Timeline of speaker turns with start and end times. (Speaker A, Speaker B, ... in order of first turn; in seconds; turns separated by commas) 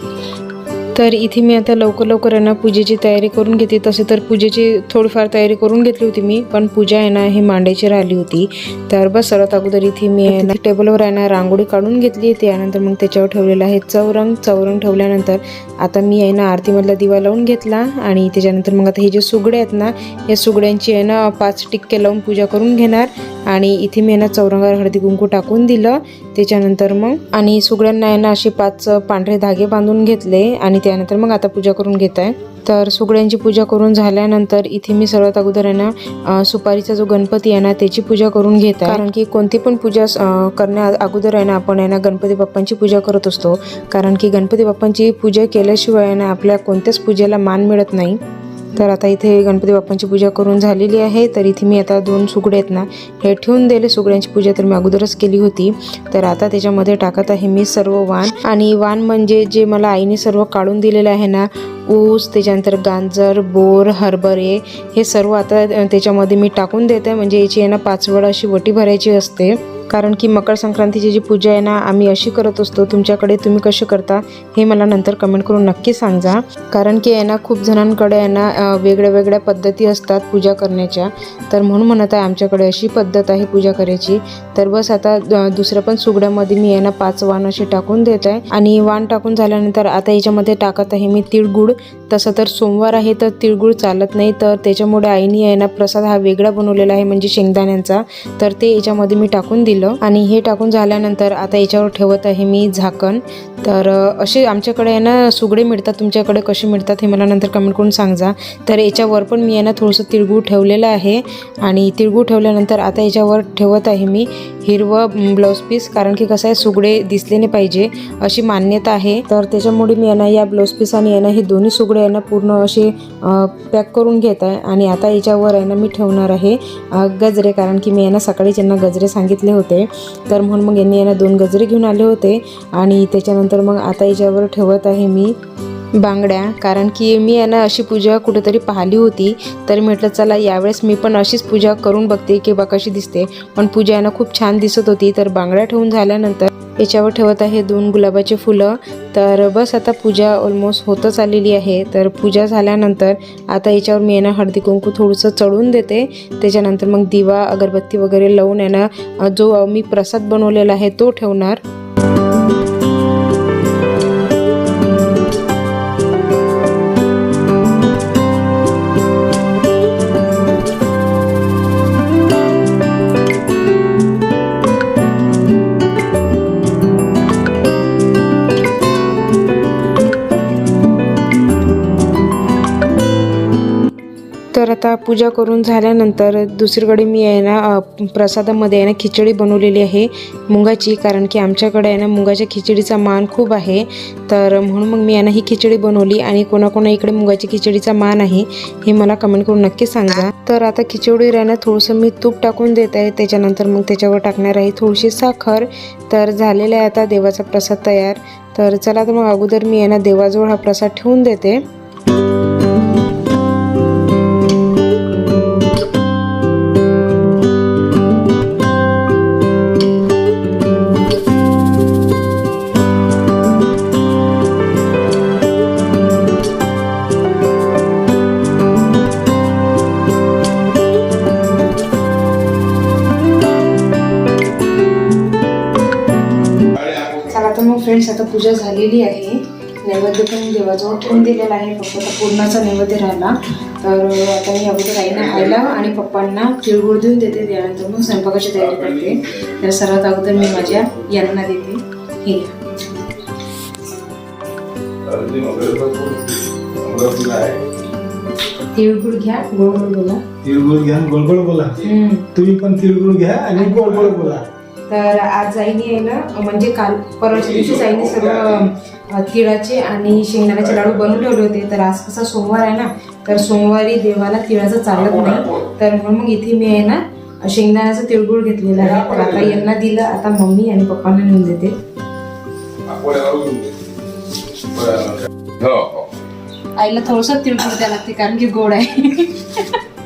Speaker A: 0.9-48.2, Speaker A: 48.8-135.4, Speaker A: 136.0-161.6, Speaker A: 184.5-211.6, Speaker B: 236.8-237.2, Speaker A: 237.1-252.5, Speaker B: 241.0-241.3, Speaker B: 245.1-245.7, Speaker B: 248.6-249.6, Speaker B: 250.3-251.2, Speaker B: 255.0-257.6, Speaker A: 258.7-260.2, Speaker C: 260.4-261.8, Speaker A: 261.8-262.3, Speaker C: 262.4-264.5, Speaker A: 263.5-264.2, Speaker A: 264.9-281.7, Speaker B: 267.3-268.6, Speaker B: 270.6-271.2, Speaker B: 274.9-275.7, Speaker B: 278.8-279.6, Speaker B: 282.9-283.8, Speaker B: 284.7-286.1, Speaker A: 286.8-289.8